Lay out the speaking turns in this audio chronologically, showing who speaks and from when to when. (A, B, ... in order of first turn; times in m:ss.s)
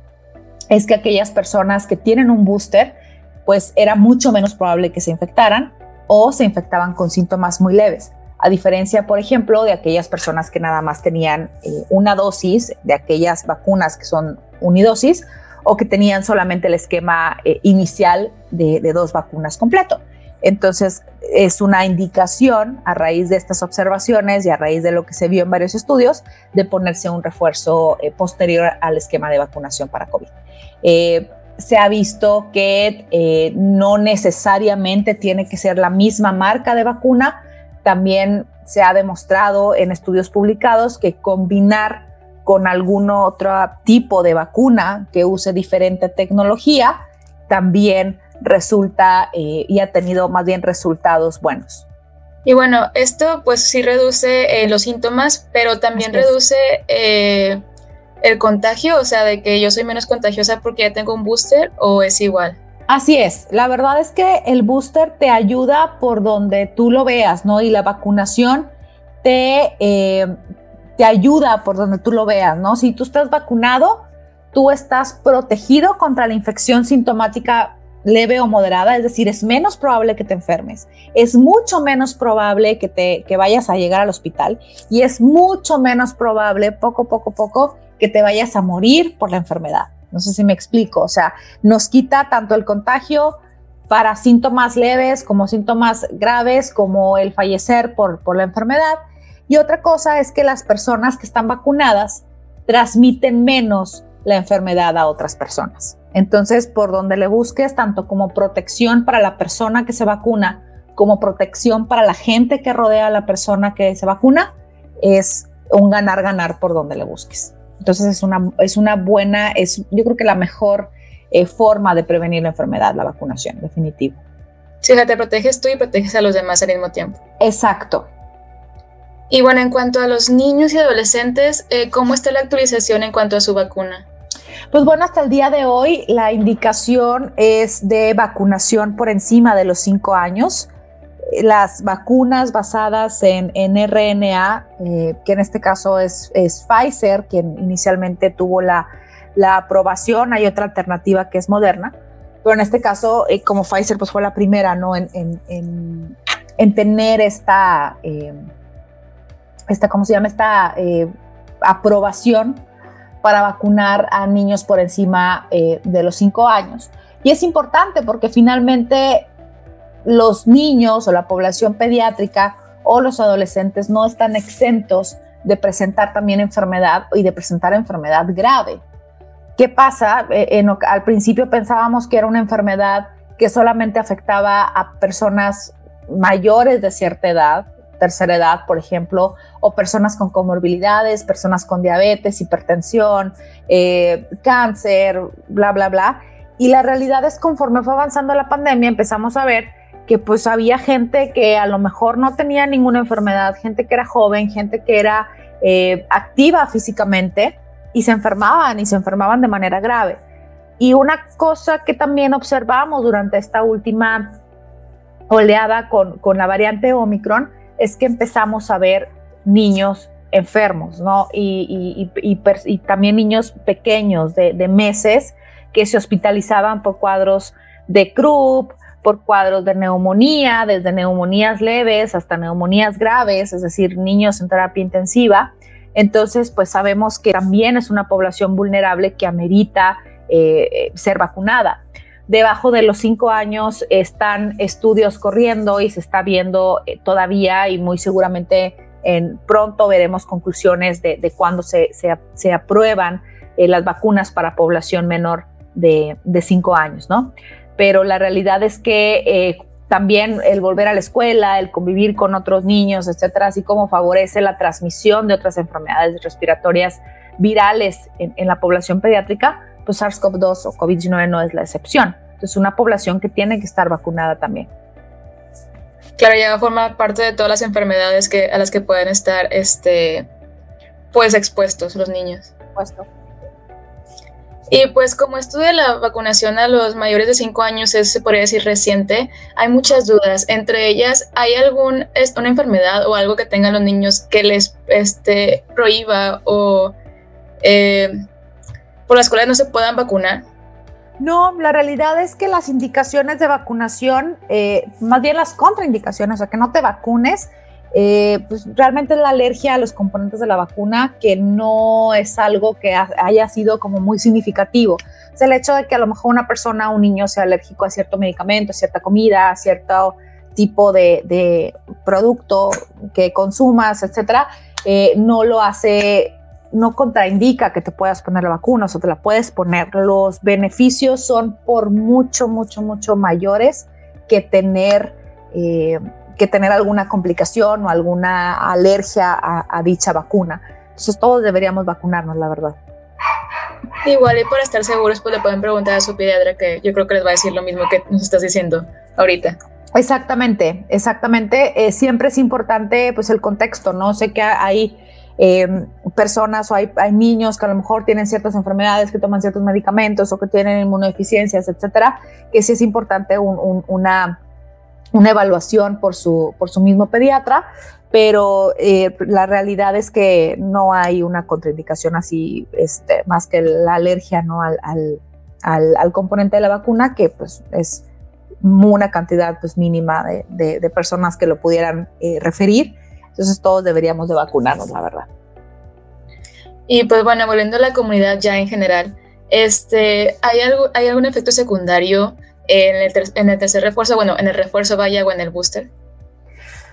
0:00.7-0:47.0 A
0:47.5-0:51.9 A
0:52.4-0:57.6 B
0:56.0-0:56.3 A
0:58.2-1:02.6 B
1:02.9-1:08.7 A
1:09.2-1:10.3 A
1:11.0-1:33.4 A
1:33.9-2:04.2 A
2:04.8-2:07.2 B
2:07.4-2:08.1 A
2:09.3-2:14.1 B
2:14.7-2:20.7 A
2:21.3-2:38.4 A
2:39.7-2:41.1 A
2:41.6-2:42.6 A
2:43.2-2:49.3 A
2:50.0-2:58.8 A
2:59.6-3:30.2 A
3:30.8-3:34.4 A
3:35.3-4:34.7 A
4:36.2-4:40.3 B
4:41.1-4:42.5 B
4:42.8-4:43.1 A
4:44.7-4:57.0 B
4:57.6-4:58.1 B
4:59.1-5:00.5 B
5:01.2-5:42.8 A
5:44.0-5:49.6 B
5:49.9-6:04.4 A
6:05.1-6:18.1 A
6:18.6-6:25.3 A
6:26.9-6:35.9 B